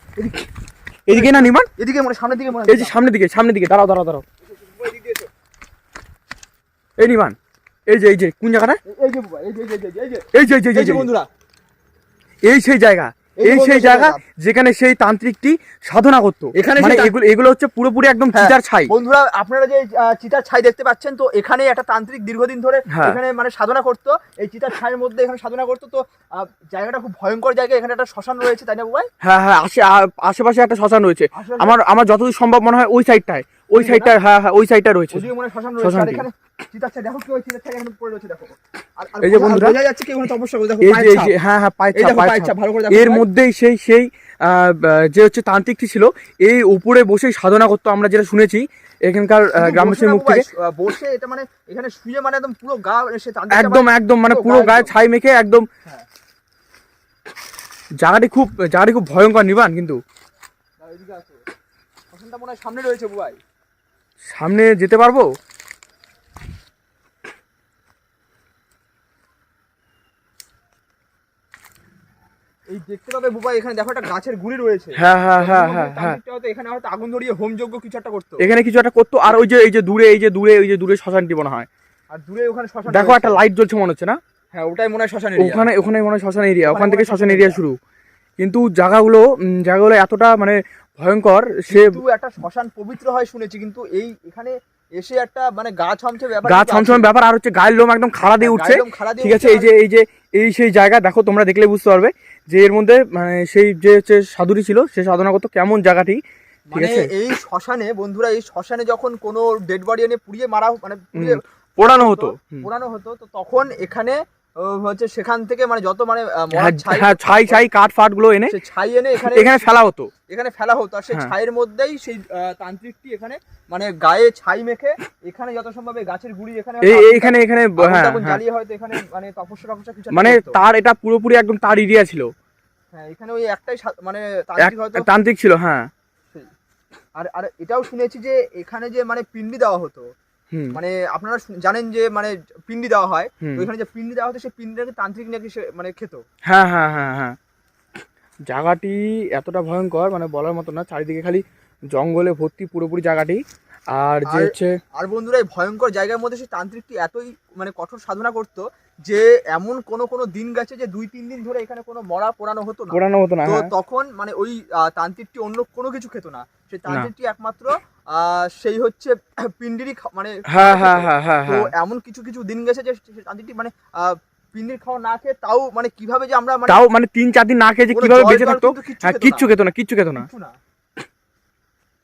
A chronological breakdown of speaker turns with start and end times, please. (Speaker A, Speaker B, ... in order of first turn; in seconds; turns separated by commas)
Speaker A: 0.2-0.4, Speaker B: 1.1-1.7, Speaker A: 1.1-3.0, Speaker B: 2.7-4.2, Speaker A: 4.5-5.3, Speaker B: 7.0-7.4, Speaker B: 7.9-8.8, Speaker A: 8.9-11.3, Speaker B: 10.3-11.1, Speaker B: 12.4-18.9, Speaker A: 13.4-14.2, Speaker A: 16.6-17.2, Speaker A: 18.3-29.1, Speaker B: 22.9-23.2, Speaker B: 29.2-35.3, Speaker A: 31.3-31.8, Speaker A: 33.8-34.1, Speaker A: 35.1-41.4, Speaker B: 35.8-36.2, Speaker B: 39.2-39.8, Speaker B: 40.8-50.5, Speaker A: 41.9-43.2, Speaker A: 49.6-54.9, Speaker B: 53.5-55.7, Speaker B: 58.0-60.0, Speaker A: 60.8-61.4, Speaker A: 62.1-63.4, Speaker B: 64.3-65.3, Speaker A: 72.7-78.5, Speaker B: 75.0-76.2, Speaker B: 78.4-81.7, Speaker A: 82.1-83.4, Speaker B: 82.9-84.2, Speaker A: 84.5-85.7, Speaker B: 85.4-87.8, Speaker A: 86.7-87.6, Speaker B: 88.4-92.0, Speaker A: 91.7-97.1, Speaker B: 96.5-106.2, Speaker A: 98.4-99.8, Speaker A: 106.7-117.6, Speaker B: 106.8-107.1, Speaker B: 111.2-112.7, Speaker B: 116.5-118.6, Speaker A: 118.5-119.7, Speaker B: 119.2-120.1, Speaker A: 120.3-130.6, Speaker B: 126.8-128.4, Speaker B: 130.1-132.3, Speaker A: 132.9-135.1, Speaker B: 134.6-135.9, Speaker A: 137.2-140.1, Speaker B: 140.5-140.8, Speaker A: 140.7-146.2, Speaker B: 146.5-147.4, Speaker B: 148.5-153.4, Speaker B: 153.9-154.8, Speaker A: 154.3-176.8, Speaker B: 162.9-163.7, Speaker B: 170.5-171.7, Speaker B: 176.7-180.3, Speaker A: 177.9-179.5, Speaker A: 180.1-180.6